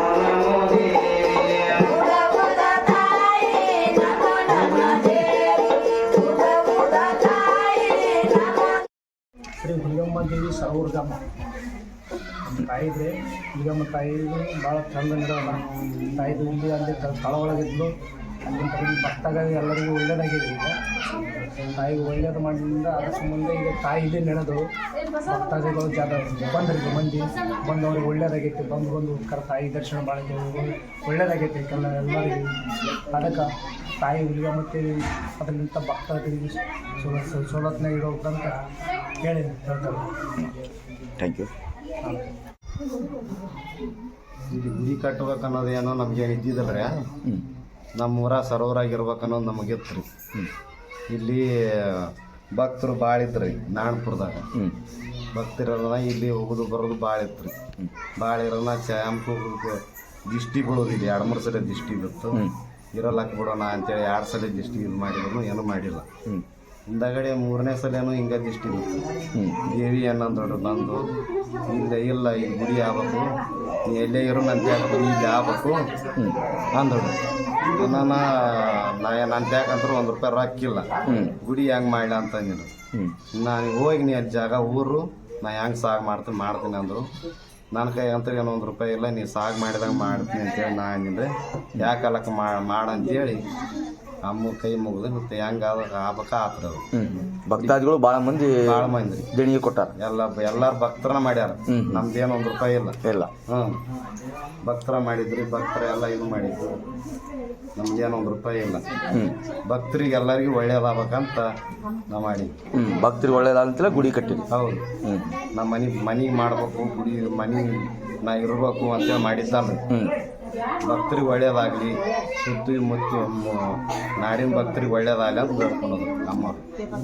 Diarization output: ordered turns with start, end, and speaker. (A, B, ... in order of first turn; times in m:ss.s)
0:04.5-0:05.0 A
0:09.6-0:11.2 A
0:12.4-0:15.7 A
0:16.2-0:17.9 A
0:18.4-0:20.8 A
0:21.8-0:24.6 A
0:25.3-0:32.6 A
0:33.1-0:33.5 A
0:34.0-0:38.6 A
0:39.2-0:40.1 A
0:41.2-0:41.5 B
0:42.0-0:42.3 A
0:44.5-0:46.9 C
0:48.0-0:50.1 C
0:51.1-0:54.5 C
0:55.3-0:57.6 C
0:58.2-0:59.8 C
1:00.3-1:02.4 C
1:02.9-1:06.1 C
1:06.9-1:09.0 C
1:09.4-1:09.7 B
1:09.7-1:11.1 C
1:11.7-1:13.3 C
1:13.9-1:15.9 C
1:16.8-1:17.2 C
1:17.8-1:22.8 C
1:21.1-1:21.3 B
1:23.3-1:27.1 C
1:27.7-1:33.5 C
1:34.2-1:36.9 C
1:37.0-1:39.9 B
1:37.6-1:37.8 C
1:38.6-1:39.3 C
1:40.0-1:43.0 C
1:41.7-1:42.0 B
1:43.0-1:43.3 B
1:43.5-1:43.8 C
1:44.6-1:46.8 C
1:47.8-1:48.8 C
1:49.7-1:51.5 C
1:52.1-1:52.6 C
1:52.7-1:54.4 B
1:54.5-1:54.9 C
1:55.0-1:55.4 B
1:55.5-1:59.8 C
2:00.8-2:06.6 C